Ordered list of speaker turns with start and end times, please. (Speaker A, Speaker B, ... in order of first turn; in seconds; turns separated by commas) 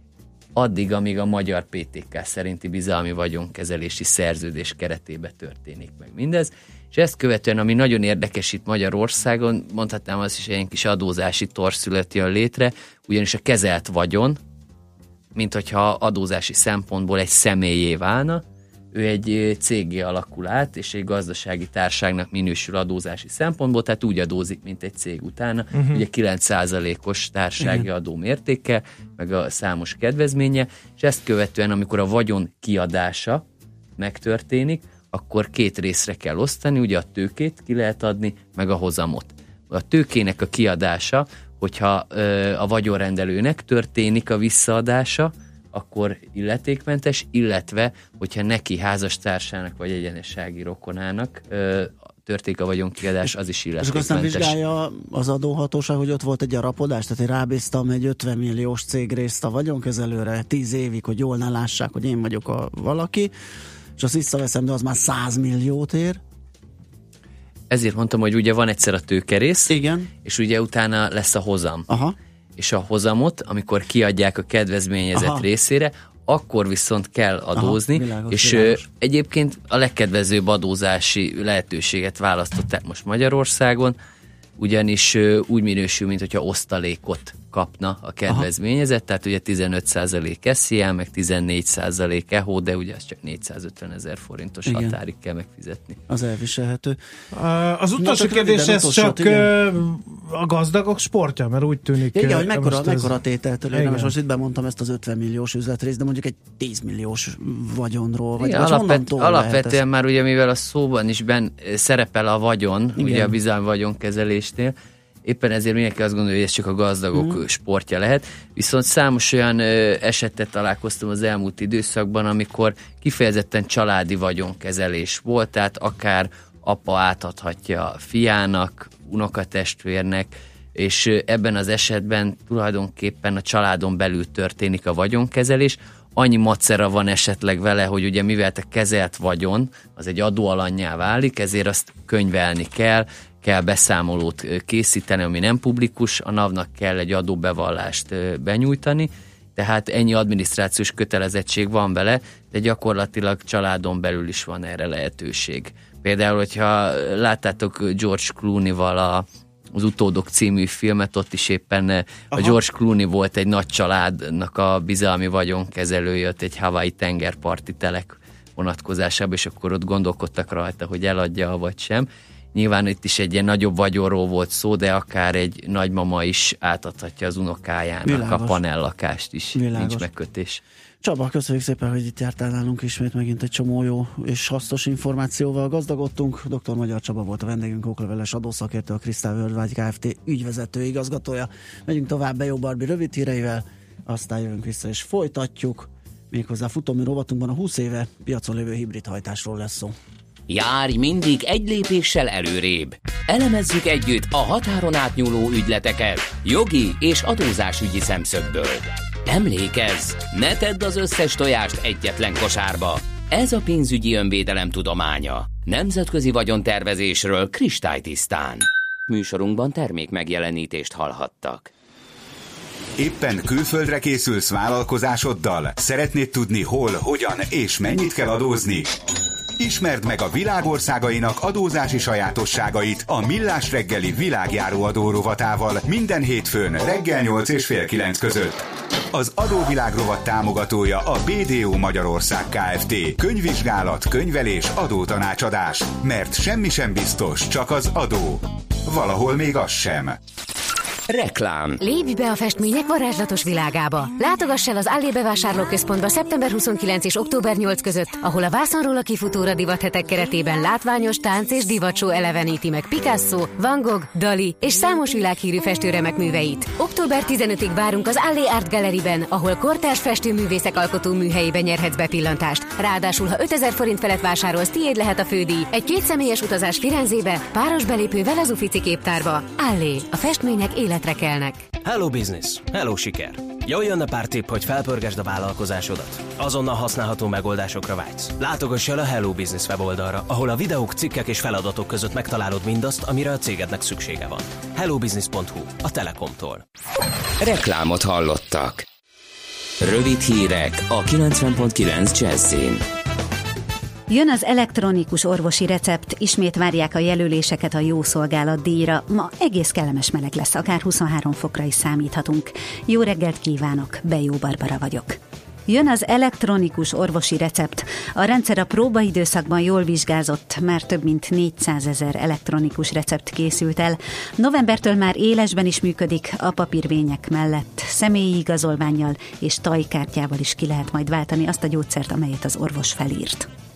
Speaker A: 0.6-14.4, Speaker A: 15.3-18.4, Speaker A: 18.9-33.4, Speaker B: 25.7-26.0, Speaker C: 27.6-27.9, Speaker A: 34.0-54.6, Speaker C: 53.2-63.3, Speaker C: 64.0-66.2, Speaker A: 67.7-69.7, Speaker C: 69.7-70.1, Speaker A: 70.2-71.9, Speaker C: 71.9-72.2, Speaker A: 72.6-84.0, Speaker C: 75.1-75.5, Speaker C: 77.5-78.8, Speaker A: 84.6-96.0, Speaker C: 94.7-95.0, Speaker C: 96.1-97.0, Speaker B: 97.4-103.1, Speaker C: 98.0-99.5, Speaker C: 102.1-109.8, Speaker B: 103.7-104.1, Speaker A: 108.4-114.7, Speaker C: 113.0-113.4, Speaker A: 115.2-180.6, Speaker C: 117.1-117.4, Speaker C: 162.3-162.6, Speaker C: 178.1-178.6, Speaker C: 179.5-180.1, Speaker C: 181.0-199.9, Speaker D: 200.5-221.7, Speaker E: 223.0-229.0, Speaker E: 229.6-250.2, Speaker D: 251.1-251.8, Speaker F: 251.8-281.7, Speaker G: 281.8-296.6, Speaker D: 297.4-298.9, Speaker D: 299.8-302.8, Speaker H: 304.1-333.5